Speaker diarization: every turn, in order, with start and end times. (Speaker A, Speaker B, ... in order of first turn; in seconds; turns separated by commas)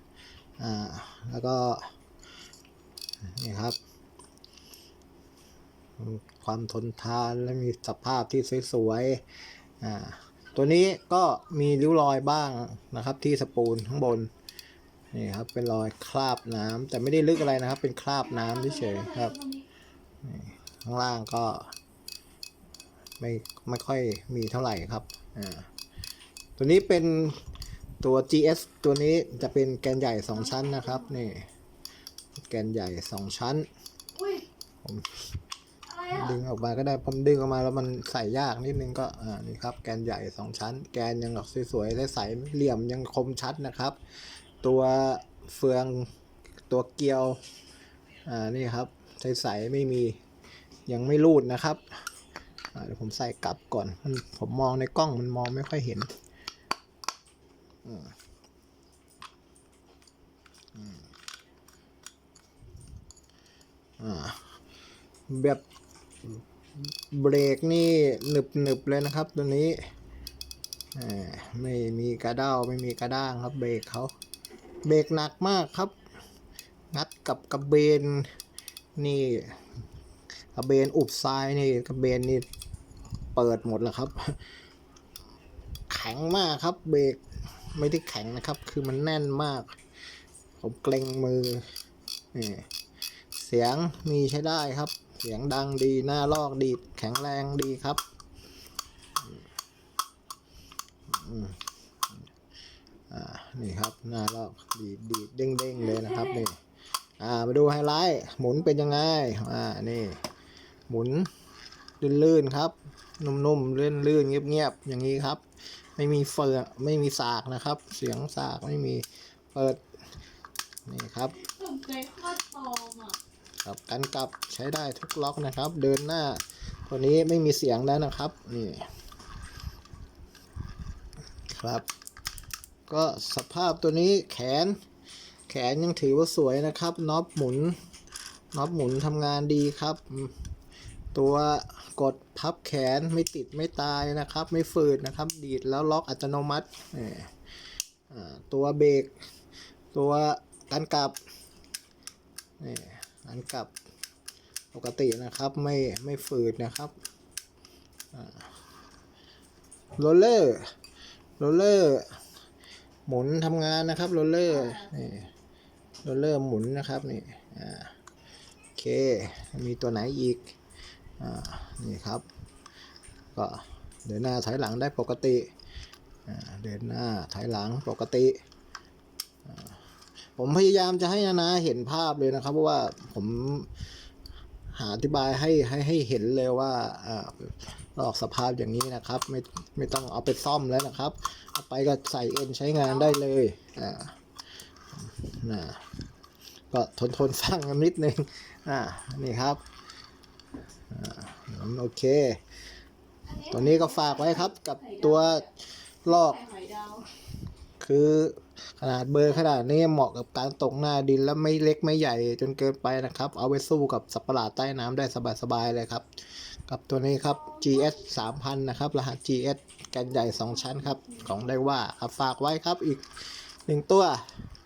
Speaker A: 0.6-1.9, Speaker A: 3.3-3.8, Speaker A: 6.0-9.2, Speaker A: 9.8-14.3, Speaker A: 15.1-19.3, Speaker B: 18.3-19.6, Speaker A: 20.2-21.7, Speaker A: 23.2-25.7, Speaker A: 26.6-27.5, Speaker A: 28.0-31.5, Speaker B: 30.5-31.0, Speaker A: 32.3-33.7, Speaker A: 34.8-35.3, Speaker B: 35.9-36.3, Speaker A: 36.1-44.0, Speaker A: 44.6-46.1, Speaker A: 46.7-47.4, Speaker A: 48.3-50.2, Speaker A: 50.9-52.1, Speaker A: 52.7-56.1, Speaker A: 57.9-58.1, Speaker A: 60.7-61.0, Speaker A: 64.0-64.6, Speaker A: 65.3-65.6, Speaker A: 66.2-69.8, Speaker A: 70.9-74.1, Speaker A: 74.8-75.9, Speaker A: 76.9-78.3, Speaker A: 79.0-79.6, Speaker A: 80.5-82.5, Speaker A: 83.3-84.5, Speaker A: 85.9-89.8, Speaker A: 90.6-91.7, Speaker A: 92.3-92.7, Speaker A: 93.3-98.0, Speaker A: 101.1-102.2, Speaker A: 103.1-106.6, Speaker A: 107.2-110.2, Speaker A: 110.9-111.3, Speaker A: 112.0-119.8, Speaker A: 120.9-121.4, Speaker B: 121.5-123.2, Speaker A: 123.6-128.9, Speaker A: 131.5-131.9, Speaker A: 132.9-134.8, Speaker A: 135.5-137.8, Speaker A: 138.5-140.5, Speaker A: 141.1-147.4, Speaker A: 148.1-149.1, Speaker A: 149.9-151.2, Speaker A: 152.6-153.7, Speaker A: 154.7-156.9, Speaker A: 158.1-158.5, Speaker A: 160.0-160.7, Speaker A: 161.4-162.2, Speaker A: 163.1-165.3, Speaker A: 166.1-167.9, Speaker A: 168.8-170.5, Speaker A: 171.2-172.2, Speaker A: 173.3-175.5, Speaker A: 176.2-178.4, Speaker A: 179.4-179.8, Speaker A: 180.4-183.9, Speaker A: 184.7-194.2, Speaker A: 194.9-195.8, Speaker A: 196.7-199.6, Speaker A: 200.9-202.4, Speaker B: 203.3-205.5, Speaker A: 203.5-206.4, Speaker B: 206.1-207.1, Speaker A: 207.8-224.3, Speaker B: 217.5-217.8